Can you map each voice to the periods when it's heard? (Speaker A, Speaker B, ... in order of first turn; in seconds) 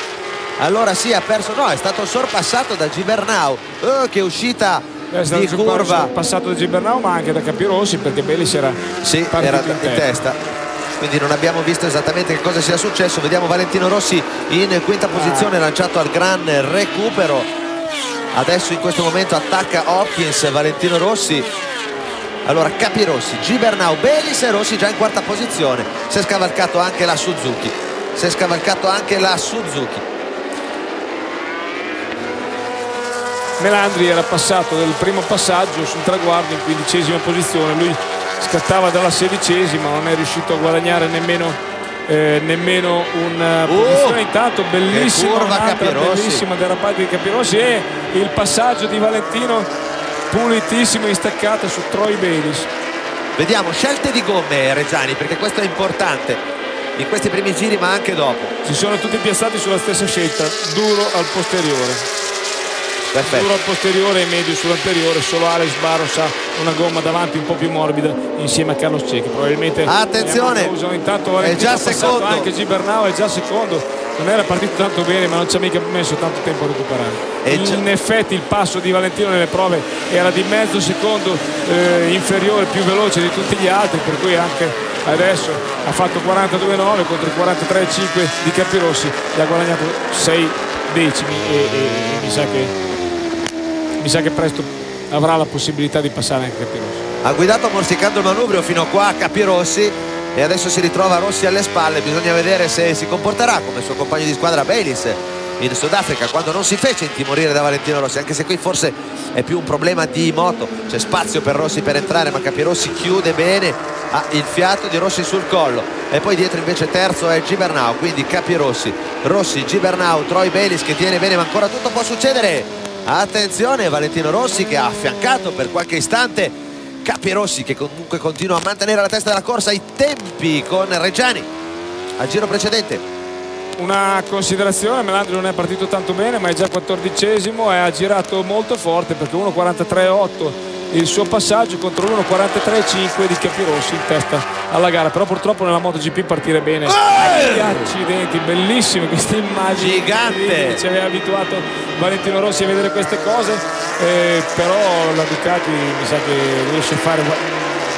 Speaker A: 0.6-6.1, 9.0-10.4, 11.0-17.5, 18.3-21.5, 22.4-30.0, 43.6-44.2, 44.9-46.4, 53.4-56.4, 57.0-58.5, 63.1-63.5, 69.8-70.7, 71.4-72.5, 77.4-77.8, 97.2-131.5, 132.2-133.0, 146.9-147.9, 149.7-150.8
Speaker B: 5.1-10.1, 15.1-15.5, 33.6-49.7, 50.3-52.7, 58.6-62.0, 63.2-92.7, 94.0-97.0, 133.8-157.5